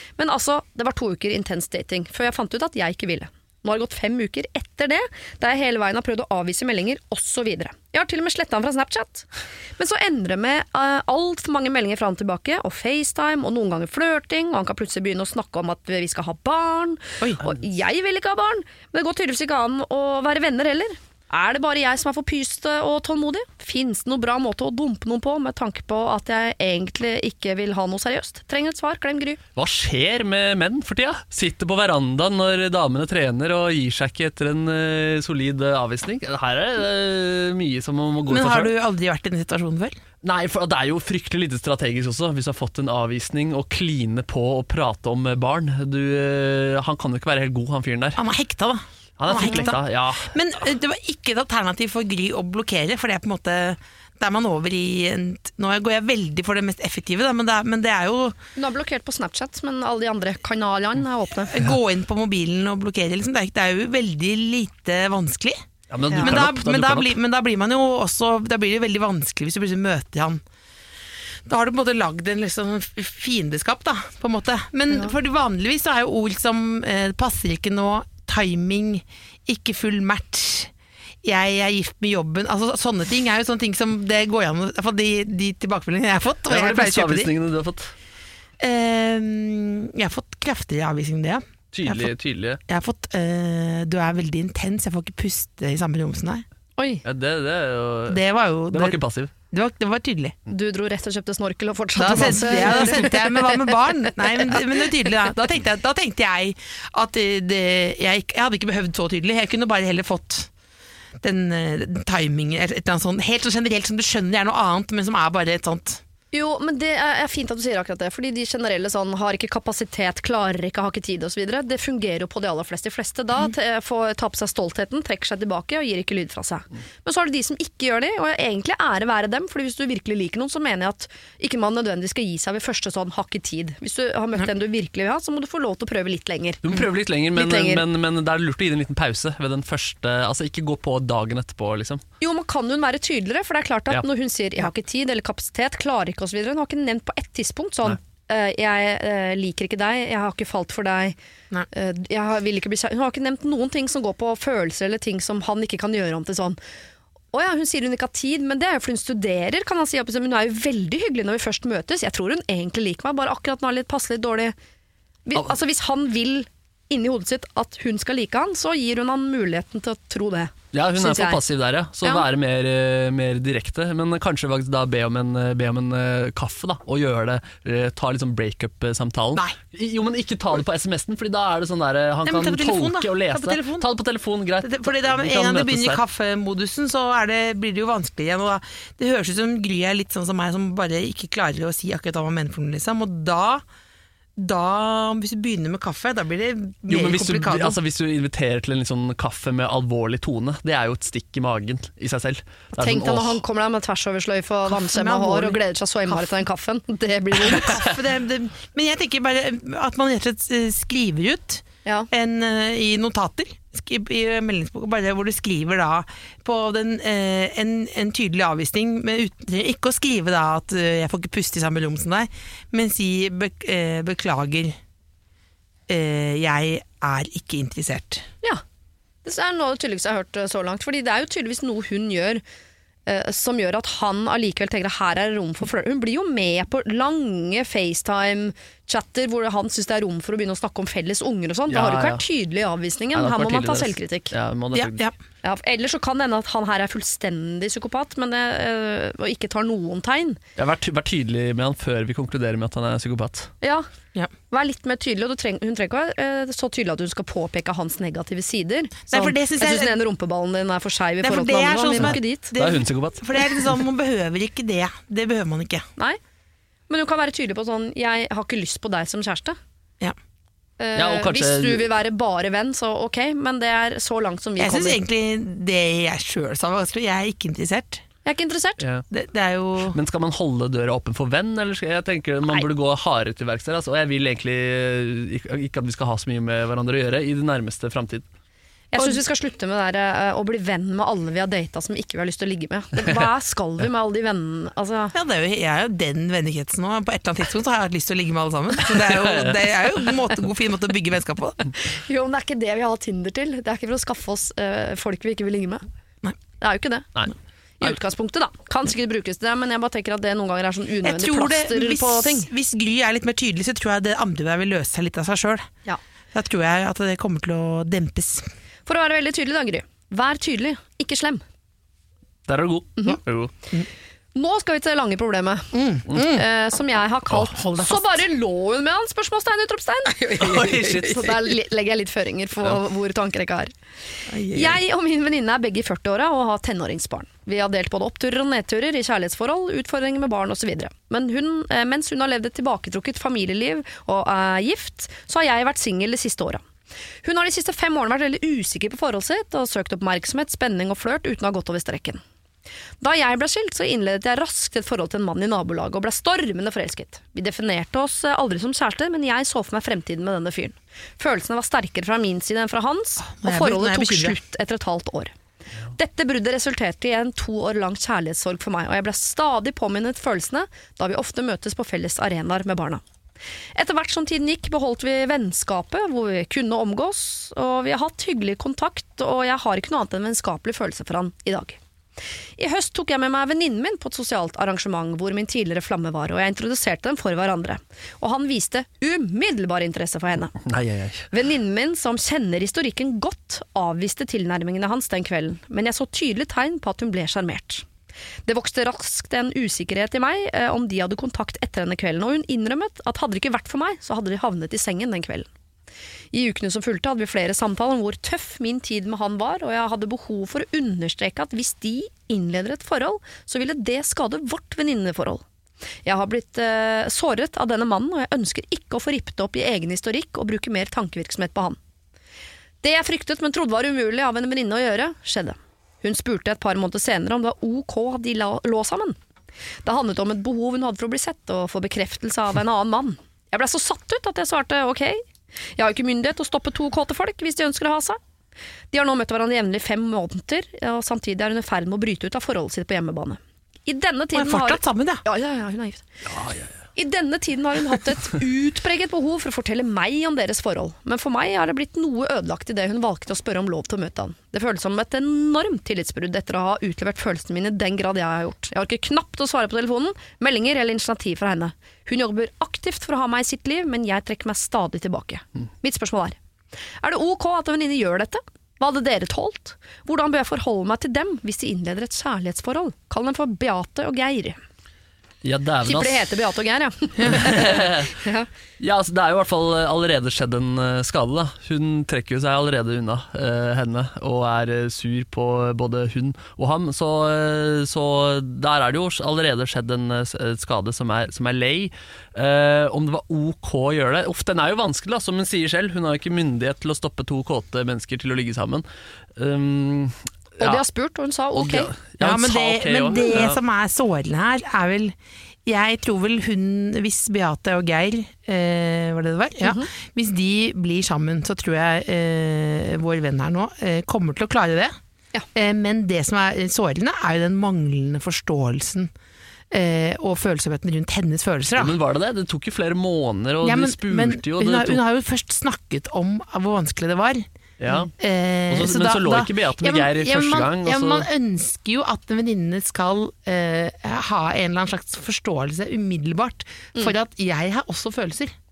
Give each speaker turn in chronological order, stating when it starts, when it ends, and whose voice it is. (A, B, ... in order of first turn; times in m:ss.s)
0:00.2-0:29.4 A
0:29.5-0:38.7 B
0:38.3-0:40.0 C
0:40.2-0:48.2 B
0:48.2-0:58.4 C
0:49.2-0:50.4 B
0:49.3-0:49.7 A
0:58.6-1:01.6 A
1:01.5-1:05.6 C
1:05.9-1:07.1 B
1:06.2-1:10.4 C
1:11.4-1:20.7 C
1:21.2-1:27.3 C
1:26.5-1:27.9 B
1:28.6-1:32.1 C
1:31.7-1:32.6 B
1:32.7-1:36.4 C
1:36.8-1:37.0 A
1:37.0-1:39.3 B
1:38.1-1:39.0 C
1:39.5-1:40.4 C
1:40.5-1:45.4 A
1:42.0-1:50.5 C
1:51.2-1:56.0 C
1:56.3-2:16.6 A
2:16.6-2:22.0 B
2:17.3-2:17.8 A
2:22.2-2:31.2 A
2:31.7-2:36.6 A
2:37.3-2:44.5 A
2:45.2-2:51.4 A
2:50.7-3:06.0 B
3:02.2-3:03.9 C
3:04.6-3:13.6 C
3:14.4-3:17.8 C
3:16.9-3:23.4 B
3:22.8-3:27.8 A
3:24.7-3:26.3 C
3:27.4-3:44.8 C
3:45.9-3:48.2 C
3:49.2-3:52.4 A
3:53.0-4:04.3 A
4:01.7-4:02.2 B
4:03.1-4:05.1 B
4:04.7-4:05.1 C
4:05.4-4:10.4 A
4:10.6-4:13.5 B
4:14.5-4:22.5 A
4:19.1-4:19.9 C
4:21.2-4:25.8 C
4:21.9-4:23.2 B
4:26.9-4:29.6 A
4:30.8-4:35.0 A
4:30.9-4:31.8 B
4:34.6-4:38.0 C
4:38.2-4:38.8 A
4:38.8-4:39.0 B
4:39.1-4:40.0 C
4:39.8-4:48.2 B
4:48.9-4:55.1 A
4:55.1-5:01.7 C
4:59.1-4:59.6 B
5:01.8-5:05.8 A
5:06.6-5:07.1 A
5:07.8-5:12.5 A
5:11.0-5:15.7 C
5:16.3-5:18.5 C
5:18.8-5:21.4 A
5:22.5-5:23.5 B
5:24.3-5:33.7 A
5:25.7-5:26.4 C
5:26.1-5:26.4 B
5:27.5-5:28.2 C
5:30.4-5:31.4 B
5:30.5-5:30.8 C
5:34.3-5:34.8 C
5:34.5-5:46.6 A
5:47.2-5:52.2 A
5:53.0-6:05.3 A
6:03.2-6:04.4 C
6:05.9-6:13.0 A
6:13.7-6:21.8 A
6:22.6-6:30.6 A
6:30.6-6:31.3 B
6:31.3-6:37.8 A
6:38.5-6:45.5 A
6:46.3-6:55.4 A
6:56.0-7:01.8 A
7:02.8-7:09.2 A
7:09.8-7:15.2 A
7:15.8-7:18.2 A
7:18.9-7:26.0 A
7:24.3-7:25.2 C
7:26.2-7:26.7 B
7:27.0-7:46.4 A
7:47.0-7:54.6 A
7:55.4-7:56.3 B
7:55.8-7:58.5 A
7:57.2-7:57.5 C
7:57.3-7:58.2 B
7:58.8-8:18.8 B
8:19.4-8:20.8 B
8:20.6-8:21.9 A
8:21.5-8:23.6 B
8:22.2-8:25.1 C
8:25.6-8:34.9 C
8:29.6-8:29.9 A
8:35.5-8:39.1 C
8:39.7-8:41.9 C
8:41.7-8:45.0 B
8:43.6-8:58.5 C
8:47.8-8:48.1 B
8:48.7-8:51.3 B